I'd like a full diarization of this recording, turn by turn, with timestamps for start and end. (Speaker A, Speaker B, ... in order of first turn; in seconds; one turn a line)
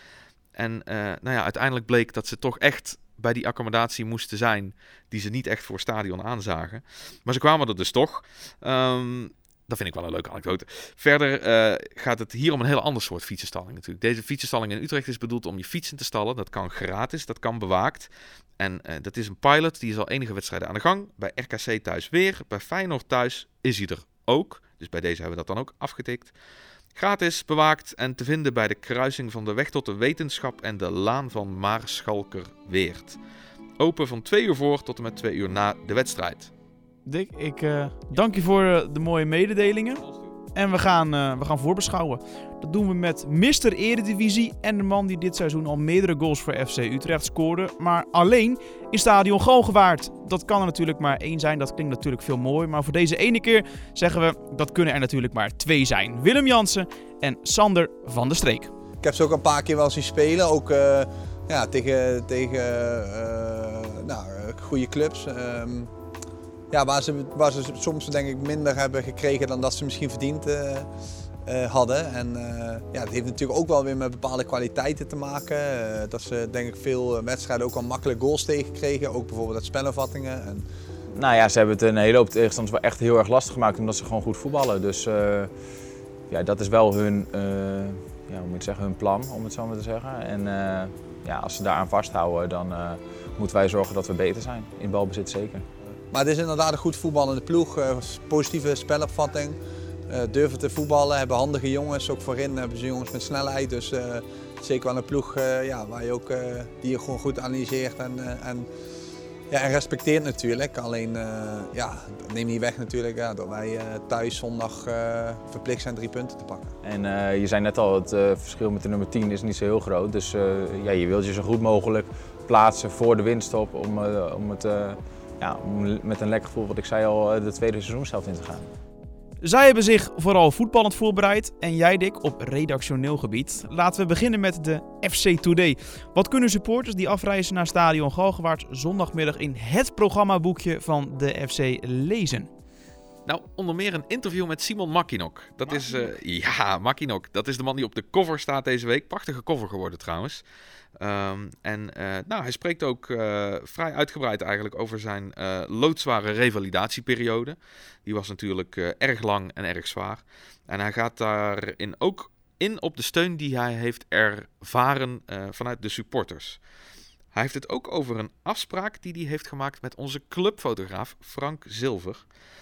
Speaker A: 0.6-26.3
Speaker A: 26.9-33.2
Speaker A: 33.8-36.5
Speaker B: 37.0-58.7
Speaker C: 59.0-65.9
Speaker C: 66.7-70.9
Speaker C: 71.5-80.6
Speaker D: 81.1-85.5
Speaker D: 86.3-95.6
Speaker C: 96.1-108.7
Speaker C: 109.5-116.7
Speaker D: 116.8-128.7
Speaker B: 129.4-142.5
Speaker A: 143.2-150.4
Speaker A: 151.0-166.6
Speaker A: 167.3-172.2